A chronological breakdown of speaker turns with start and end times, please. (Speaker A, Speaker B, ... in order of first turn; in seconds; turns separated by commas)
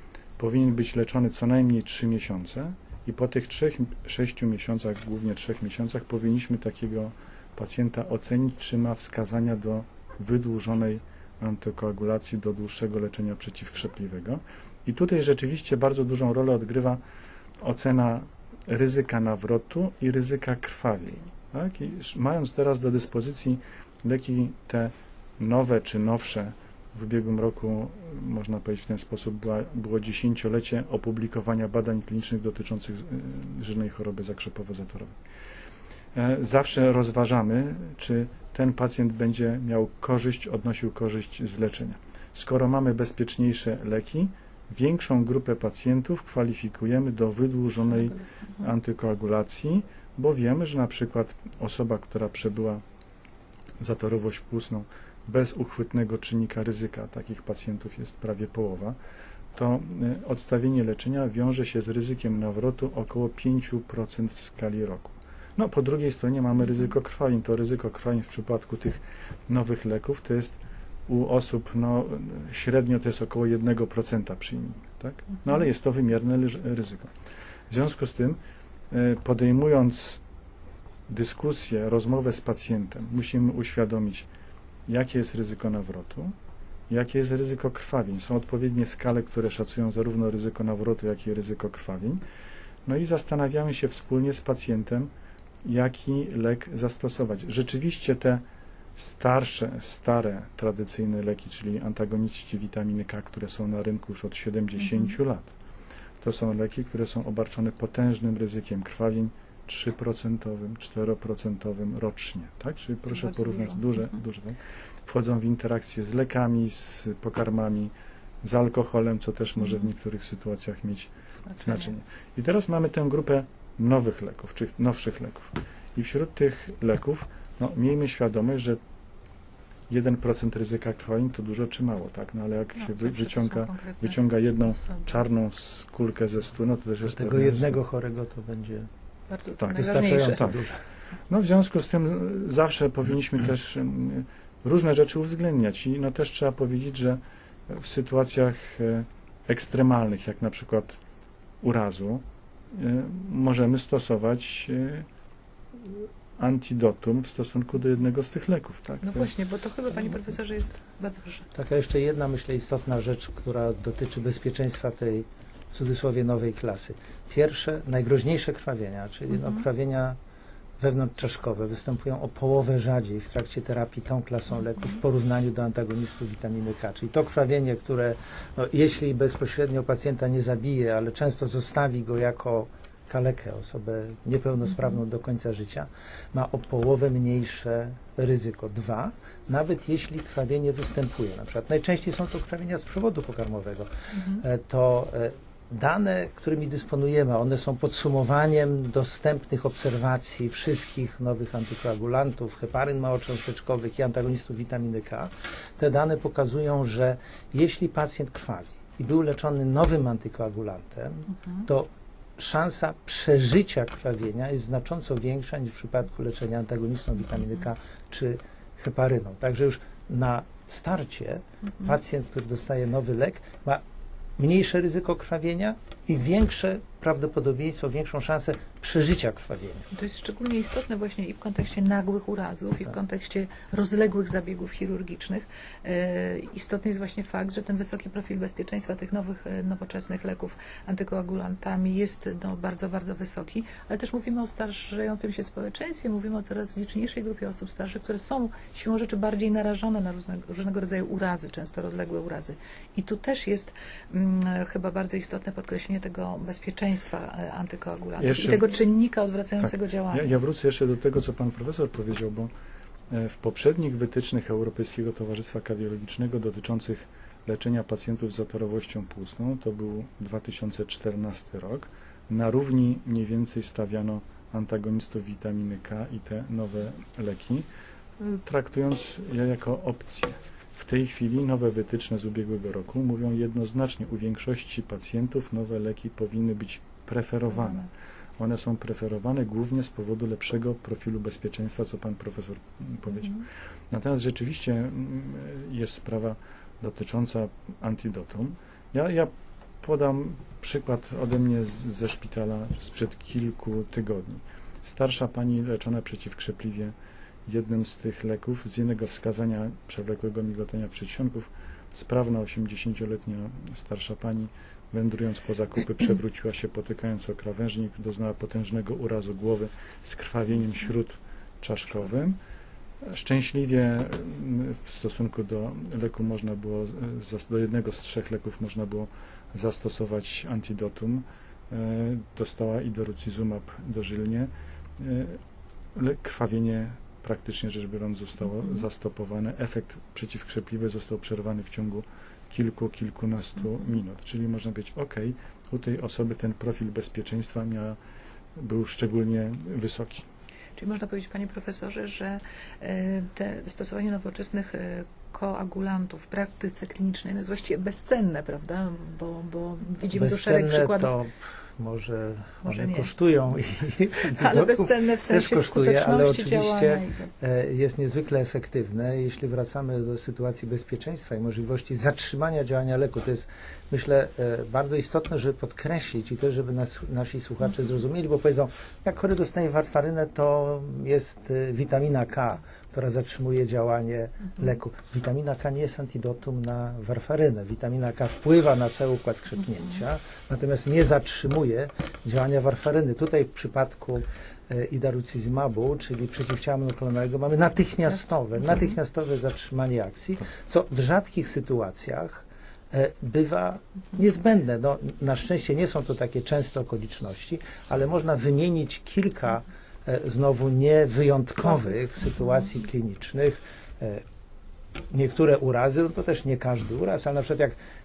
Speaker A: 0.4-17.0, Speaker A: 17.6-35.2, Speaker A: 36.1-52.8, Speaker A: 53.8-59.0, Speaker A: 59.5-77.1, Speaker A: 77.7-78.4, Speaker A: 78.9-80.2, Speaker A: 81.1-84.3, Speaker A: 84.9-86.3, Speaker A: 86.9-92.2, Speaker A: 92.8-95.1, Speaker A: 95.6-98.4, Speaker A: 99.0-105.5, Speaker B: 104.8-105.1, Speaker A: 106.2-117.9, Speaker B: 113.2-113.9, Speaker A: 118.4-128.8, Speaker B: 121.5-121.9, Speaker A: 129.9-137.8, Speaker B: 132.8-135.2, Speaker C: 137.1-138.9, Speaker B: 139.3-140.4, Speaker A: 139.6-140.6, Speaker C: 139.8-140.8, Speaker A: 141.3-151.0, Speaker A: 151.6-152.2, Speaker A: 152.7-155.1, Speaker A: 155.8-159.3, Speaker B: 159.0-161.5, Speaker C: 161.5-170.2, Speaker B: 169.3-169.6, Speaker C: 170.8-223.8, Speaker B: 194.1-194.4, Speaker B: 211.3-211.7, Speaker B: 221.7-221.9, Speaker C: 224.4-229.9, Speaker B: 229.9-260.4, Speaker A: 258.2-258.7, Speaker A: 259.6-262.5, Speaker A: 263.1-277.7, Speaker A: 278.2-306.9, Speaker A: 307.5-322.4, Speaker A: 323.0-335.4, Speaker A: 335.9-348.0, Speaker A: 348.6-350.2, Speaker B: 350.8-361.1, Speaker C: 360.1-414.2, Speaker B: 362.6-363.1, Speaker B: 364.4-367.3, Speaker C: 415.1-417.8